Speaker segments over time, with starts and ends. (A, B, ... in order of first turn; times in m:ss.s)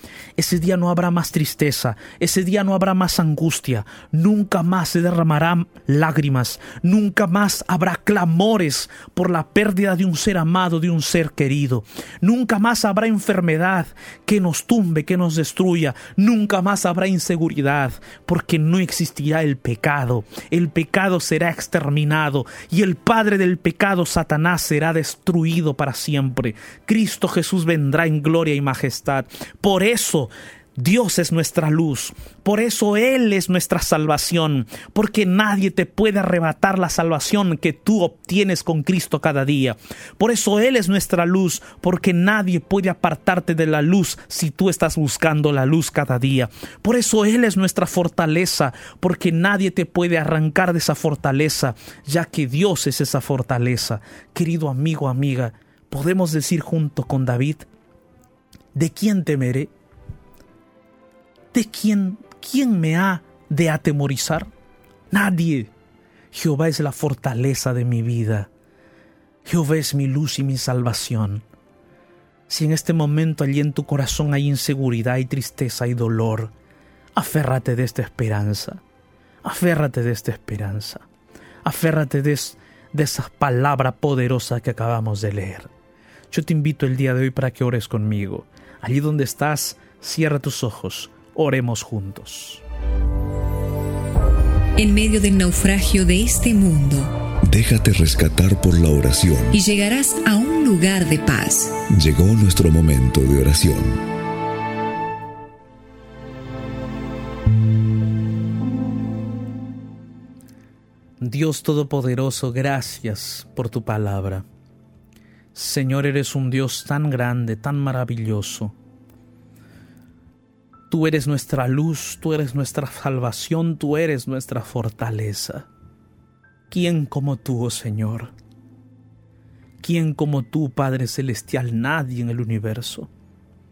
0:00.4-0:57.7 A
0:58.7-0:59.7 A
1:01.5-1:04.5 A
1:05.1-1:05.7 A
1:06.3-1:08.5 A
1:09.4-1:11.4 A
1:12.5-1:16.5 A
1:17.1-1:18.8 A
1:19.4-1:21.0 A
1:21.6-1:25.7 A
1:26.3-1:32.6 A
1:34.8-1:37.2 B
1:37.4-1:39.6 C
1:39.5-1:41.8 B
1:41.9-1:44.0 C
1:51.2-1:54.4 A
1:55.5-1:58.7 A
2:00.9-2:05.6 A
2:06.7-2:08.3 A
2:09.8-2:13.1 A